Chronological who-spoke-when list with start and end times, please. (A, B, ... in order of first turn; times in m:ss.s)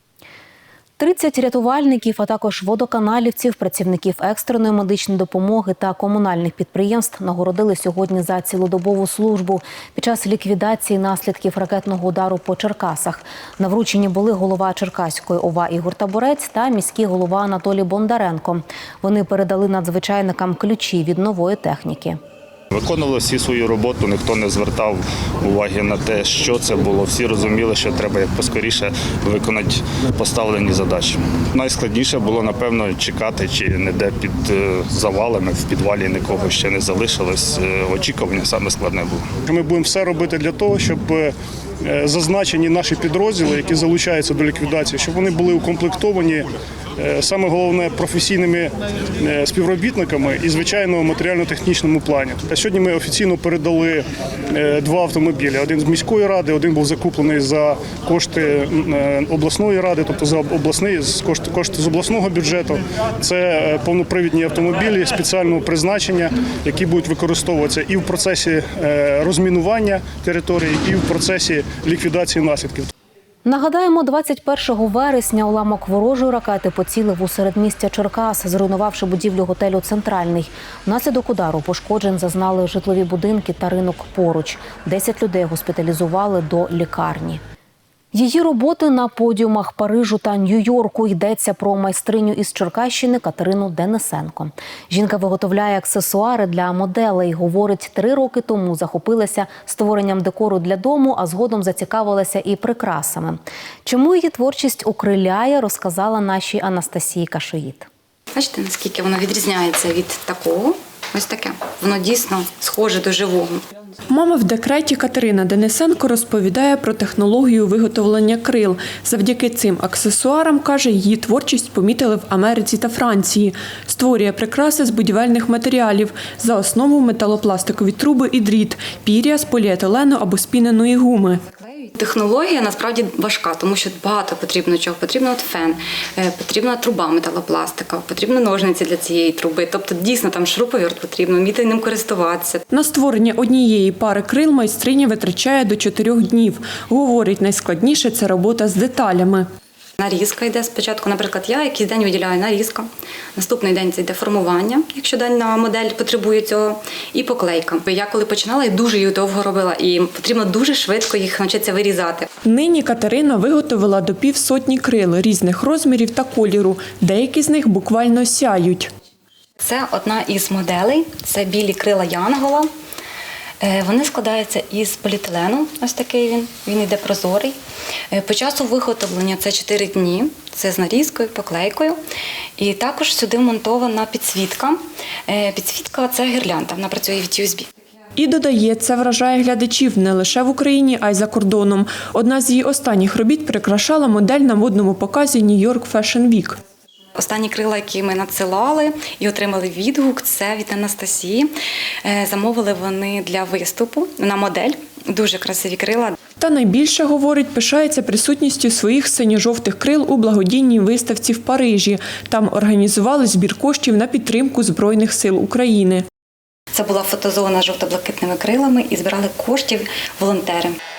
0:01.0-0:22.2 A
0:22.7-0:39.2 B
0:39.5-0:41.3 C
0:41.8-0:46.4 C
0:47.0-0:48.7 C
0:49.2-0:54.0 C
0:54.5-1:12.9 C
1:13.4-1:27.4 A
1:28.1-1:47.9 A
1:48.3-1:53.6 D
1:54.1-2:11.4 E
2:11.6-2:22.6 D
2:22.7-2:29.5 E
2:30.0-2:42.3 D
2:42.4-2:48.9 E
2:49.6-2:52.7 D
2:53.6-2:57.6 D
2:58.1-3:02.0 D
3:02.6-3:07.7 D
3:08.2-3:16.6 E
3:17.2-3:21.5 D
3:22.0-3:26.2 D
3:26.4-3:36.0 E
3:36.7-3:40.8 D